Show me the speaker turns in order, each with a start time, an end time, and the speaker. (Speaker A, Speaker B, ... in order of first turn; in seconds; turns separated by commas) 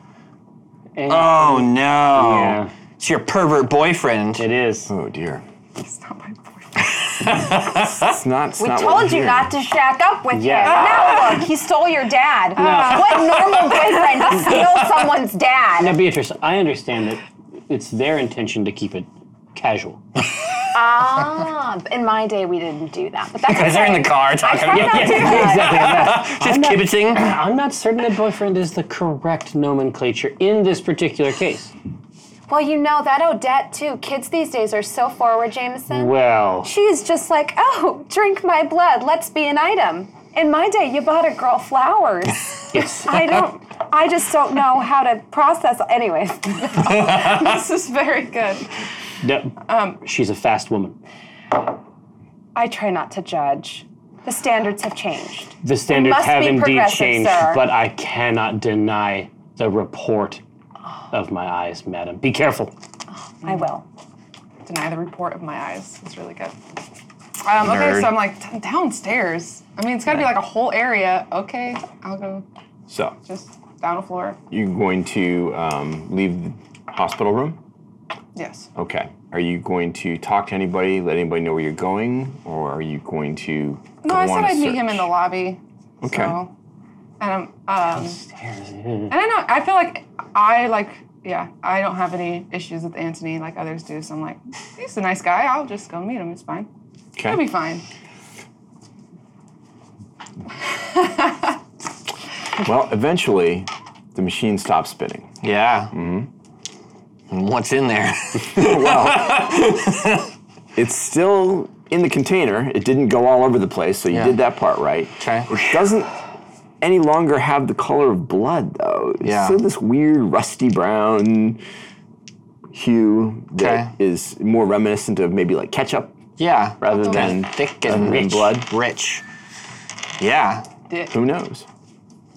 Speaker A: 1.0-2.7, Speaker B: 1.1-4.5, Speaker A: 4.4-4.9, Speaker C: 4.9-5.5, Speaker D: 5.8-7.0, Speaker B: 7.2-8.1, Speaker C: 8.0-9.5, Speaker E: 8.6-16.0, Speaker A: 10.3-11.2, Speaker D: 10.8-11.3, Speaker A: 12.6-13.3, Speaker D: 12.6-13.8, Speaker A: 15.8-20.0, Speaker E: 20.7-26.0, Speaker B: 23.5-27.3, Speaker A: 24.7-31.7, Speaker E: 32.5-46.9, Speaker A: 35.9-36.7, Speaker A: 42.7-43.2, Speaker D: 46.8-48.7, Speaker A: 49.2-51.0, Speaker D: 49.7-50.0, Speaker E: 52.5-57.6, Speaker A: 55.6-60.4, Speaker A: 61.1-62.7, Speaker E: 63.4-63.9, Speaker D: 64.7-66.6, Speaker D: 67.4-72.4, Speaker B: 67.6-68.2, Speaker C: 72.9-73.2, Speaker D: 73.2-74.4, Speaker C: 74.5-77.6, Speaker D: 78.4-78.7, Speaker C: 78.8-85.1, Speaker D: 84.0-86.5, Speaker C: 86.0-86.4, Speaker D: 87.2-88.2, Speaker A: 87.9-89.1, Speaker D: 89.1-96.7, Speaker C: 97.2-97.5, Speaker D: 97.2-97.8, Speaker D: 101.0-101.3, Speaker C: 102.6-105.3, Speaker B: 105.4-105.9, Speaker C: 105.9-106.3, Speaker B: 107.3-110.3, Speaker C: 108.5-109.6, Speaker C: 110.8-116.2, Speaker B: 114.1-114.4, Speaker B: 115.2-115.7, Speaker C: 116.8-121.6, Speaker B: 119.2-119.6, Speaker C: 122.7-126.2, Speaker B: 123.6-123.9, Speaker B: 126.4-129.2, Speaker C: 126.8-128.7, Speaker D: 126.9-127.3, Speaker B: 130.2-130.7, Speaker C: 131.1-131.7